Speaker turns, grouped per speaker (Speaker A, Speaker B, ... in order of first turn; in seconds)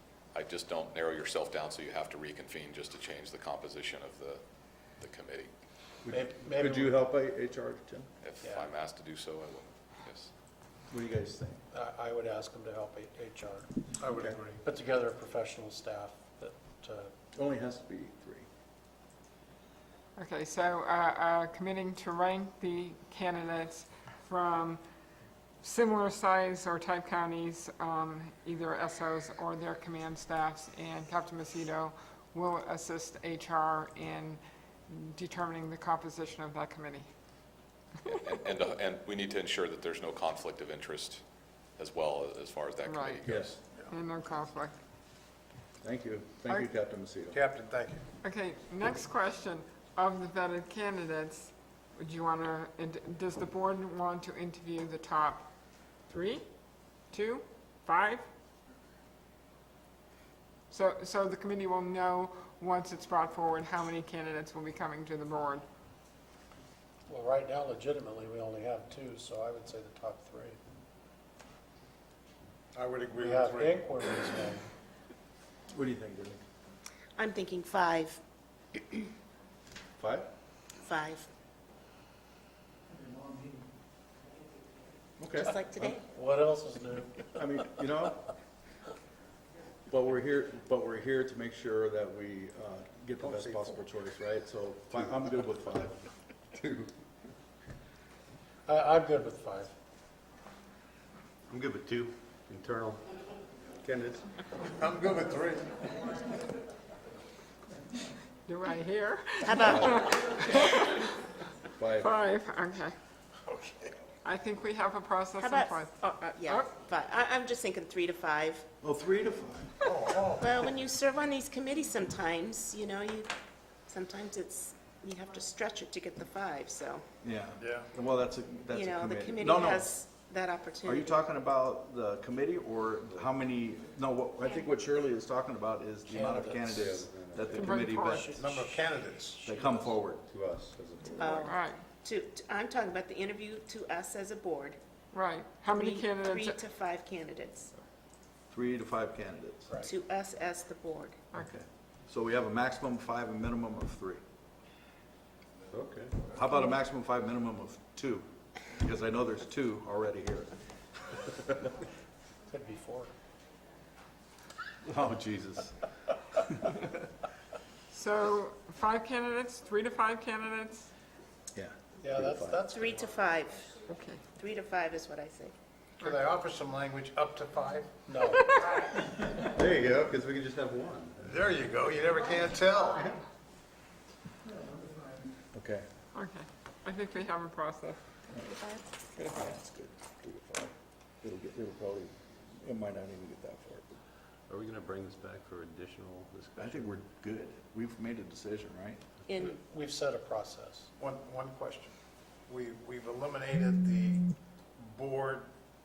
Speaker A: 0.3-4.4, 5.0-5.5, 8.2-10.3, 38.1-41.2, 41.8-43.6
Speaker B: 6.0-8.1, 10.9-11.6, 14.1-14.4, 17.3-18.5, 43.3-43.6, 45.8-47.4, 75.7-76.4, 80.0-80.3, 85.2-86.0, 87.3-88.3, 89.9-96.9, 111.8-112.1, 118.8-119.8, 127.2-129.9, 130.8-138.4, 139.4-140.2, 148.5-149.7, 151.3-154.2, 156.3-160.6, 164.8-165.9, 166.4-166.9, 171.6-172.6, 185.5-185.9, 189.2-193.9, 196.6-199.0
Speaker C: 6.1-7.0, 8.4-8.7, 11.7-17.1, 67.1-70.6, 73.1-74.7, 86.1-87.3, 98.7-99.7, 136.1-136.8, 138.0-139.7, 162.5-163.1, 172.0-173.2, 178.0-178.6, 199.4-200.9
Speaker D: 20.2-24.8, 25.6-37.1, 42.9-43.2, 43.9-44.8, 48.2-55.5, 56.1-56.5, 57.1-58.3, 60.7-65.7, 108.5-111.0, 112.0-113.0, 114.2-116.7, 137.5-138.3, 141.4-141.8, 145.1-146.6, 167.9-170.9, 173.9-174.2, 178.3-178.7, 186.1-188.0
Speaker E: 47.4-48.0, 72.7-73.8, 93.4-93.8, 104.8-105.7, 113.5-113.9, 119.9-120.5, 138.4-139.8, 176.0-178.0, 181.3-183.1, 201.0-201.9, 202.5-204.3, 204.8-205.5
Speaker F: 77.2-78.2, 80.8-81.3, 85.4-86.0, 109.5-110.6, 115.4-118.7, 120.4-123.3, 123.9-127.0, 128.7-131.2, 141.2-144.8, 145.8-147.7, 149.8-151.2, 172.6-173.8, 174.4-175.5, 188.4-188.9, 199.3-199.6
Speaker G: 101.5-103.0, 103.8-104.3, 136.4-137.8, 140.3-141.5, 155.7-156.3, 179.3-182.1, 182.8-183.2, 194.5-197.0